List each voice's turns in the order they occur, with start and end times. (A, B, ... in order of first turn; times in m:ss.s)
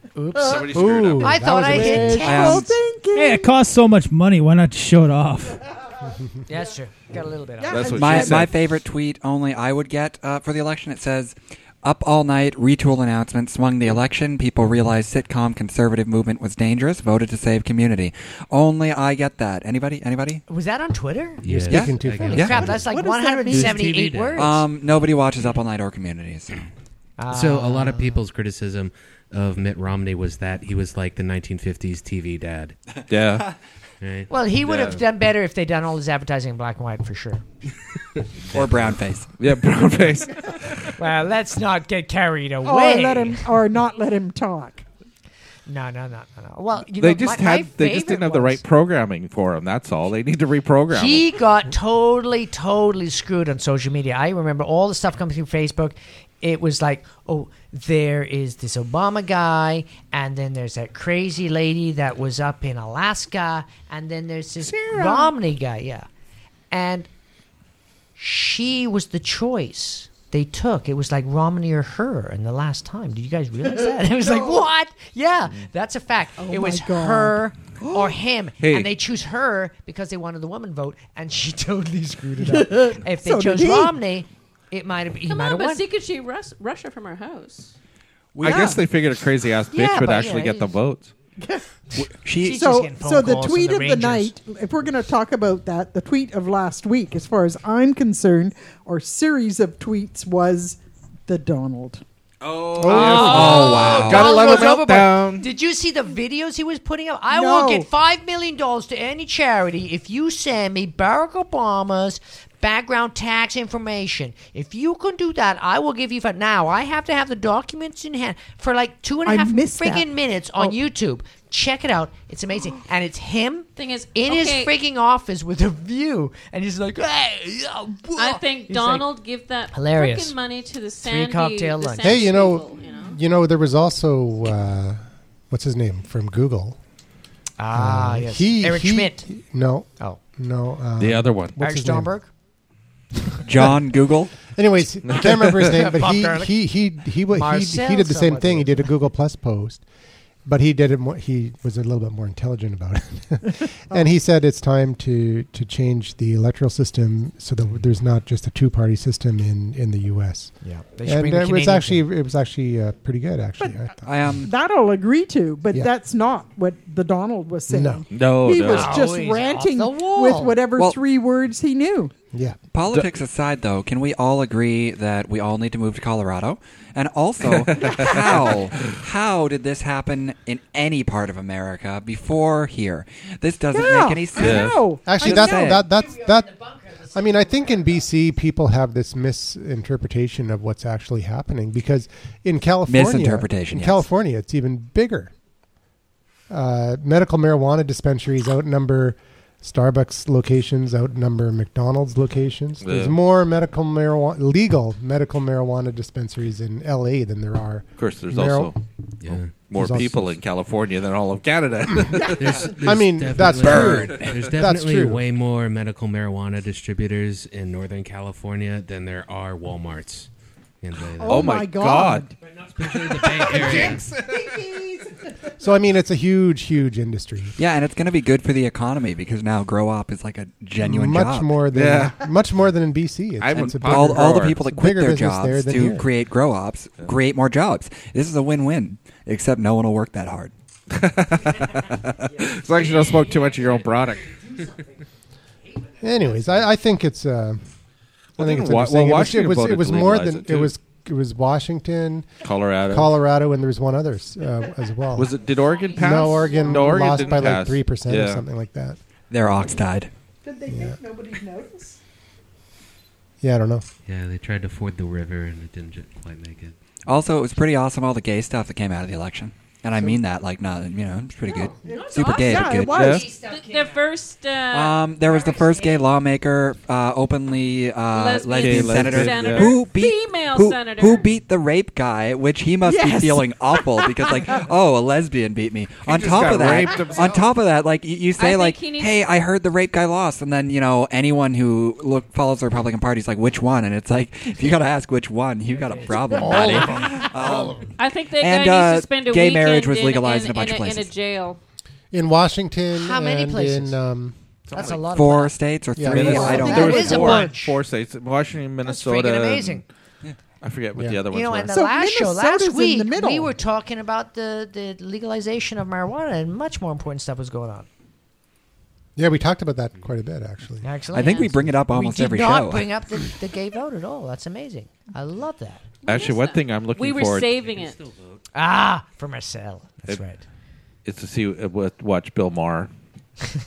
0:00.2-0:02.7 A
0:00.3-0:00.7 B
0:00.4-0:01.4 C
0:00.7-0:02.4 D
0:01.4-0:03.6 B
0:02.2-0:02.8 E
0:03.1-0:05.6 F
0:06.5-0:08.0 A
0:07.6-0:08.5 B
0:07.7-0:08.6 C
0:08.0-0:20.4 E
0:20.5-0:24.6 A
0:21.4-0:22.8 G
0:21.5-0:22.8 D
0:21.7-0:22.7 E
0:22.7-0:23.9 B
0:23.5-0:24.5 G
0:24.4-0:26.7 E
0:27.2-0:28.2 A
0:27.3-0:32.8 G
0:33.1-0:33.5 C
0:34.0-0:34.3 G
0:34.3-0:37.4 A
0:34.6-0:35.0 C
0:38.5-0:39.3 E
0:39.4-0:40.9 C
0:41.0-0:43.4 A
0:42.6-0:44.8 B
0:45.7-0:48.6 A
0:46.9-0:51.3 C
0:50.9-1:06.1 A
1:04.7-1:05.3 B
1:06.7-1:07.1 A
1:08.2-1:25.8 A
1:16.4-1:18.1 B
1:18.6-1:18.9 C
1:22.4-1:24.0 B
1:25.3-1:27.7 H
1:28.4-1:31.1 C
1:28.4-1:28.8 E
1:28.4-1:28.8 B
1:29.7-1:30.8 A
1:31.9-1:34.3 A
1:32.2-1:32.6 E
1:32.5-1:42.0 B
1:42.4-1:45.5 C
1:42.8-2:09.1 A
1:42.8-1:43.8 B
1:43.0-1:44.4 E
1:47.3-1:47.9 B
1:59.3-2:00.8 B
2:03.8-2:04.7 H
2:08.2-2:13.2 H
2:09.7-2:10.4 A
2:11.0-2:12.3 A
2:12.0-2:16.8 D
2:17.6-2:19.2 A
2:17.7-2:22.1 D
2:21.0-2:21.6 C
2:21.6-2:22.3 A
2:23.4-2:24.4 E
2:24.5-2:29.8 D
2:25.0-2:25.7 C
2:25.5-2:26.6 A
2:27.3-2:28.8 A
2:30.4-2:44.0 D
2:40.6-2:42.0 A
2:43.6-2:52.1 B
2:44.0-2:44.5 E
2:47.7-2:48.0 D
2:48.1-2:49.0 C
2:48.6-2:50.6 A
2:52.7-3:05.8 E
2:57.4-2:58.9 C
3:03.7-3:05.8 B
3:04.4-3:04.8 C
3:05.0-3:15.3 D
3:12.9-3:14.0 E
3:16.5-3:28.8 D
3:22.8-3:23.2 C
3:28.0-3:28.8 C
3:29.2-3:29.6 G
3:29.3-3:30.4 D
3:29.6-3:32.7 C
3:32.1-3:35.2 D
3:32.4-3:40.3 G
3:33.9-3:34.1 E
3:33.9-3:34.2 C
3:40.8-3:41.5 G
3:41.2-3:42.3 B
3:41.2-3:42.3 C
3:42.8-3:44.0 G
3:43.2-3:44.3 C
3:44.4-3:44.8 B
3:45.6-3:47.6 D
3:47.6-3:51.6 E
3:50.8-3:56.1 D
3:51.7-3:52.2 C
3:53.4-3:54.6 C
3:53.6-4:00.5 E
4:00.9-4:04.4 C
4:06.0-4:07.6 D
4:08.4-4:10.7 C
4:08.4-4:15.3 D
4:12.4-4:13.1 C
4:15.2-4:18.4 C
4:15.9-4:19.0 D
4:16.5-4:17.0 B
4:19.3-4:20.1 E
4:20.4-4:22.0 B
4:20.7-4:21.0 D
4:23.4-4:23.8 D
4:24.1-4:26.8 G
4:27.1-4:33.2 E
4:31.8-4:33.3 B
4:32.9-4:33.3 C
4:32.9-4:33.9 A
4:33.3-4:35.0 H
4:34.7-4:57.8 E
4:35.4-4:35.9 A
4:38.1-4:41.3 H
4:38.6-4:39.7 C
4:42.8-4:44.6 B
4:46.0-4:47.5 C
4:48.4-4:49.2 H
4:55.8-4:57.8 A
4:58.0-5:01.6 H
4:58.4-5:01.1 E
5:02.1-5:04.4 D
5:02.9-5:04.0 A
5:04.7-5:05.0 C
5:04.7-5:05.6 A
5:04.9-5:07.4 E
5:06.0-5:07.2 D
5:06.0-5:09.9 C
5:06.1-5:07.8 A
5:06.2-5:07.5 B
5:08.8-5:09.8 A
5:10.6-5:11.7 C
5:11.0-5:11.2 D
5:11.3-5:17.9 A
5:11.7-5:13.5 B
5:19.2-5:20.9 D
5:20.8-5:25.8 A
5:21.1-5:22.9 E
5:26.0-5:27.6 C
5:26.0-5:28.0 H
5:27.6-5:28.4 G
5:28.5-5:30.4 A
5:31.0-5:32.9 C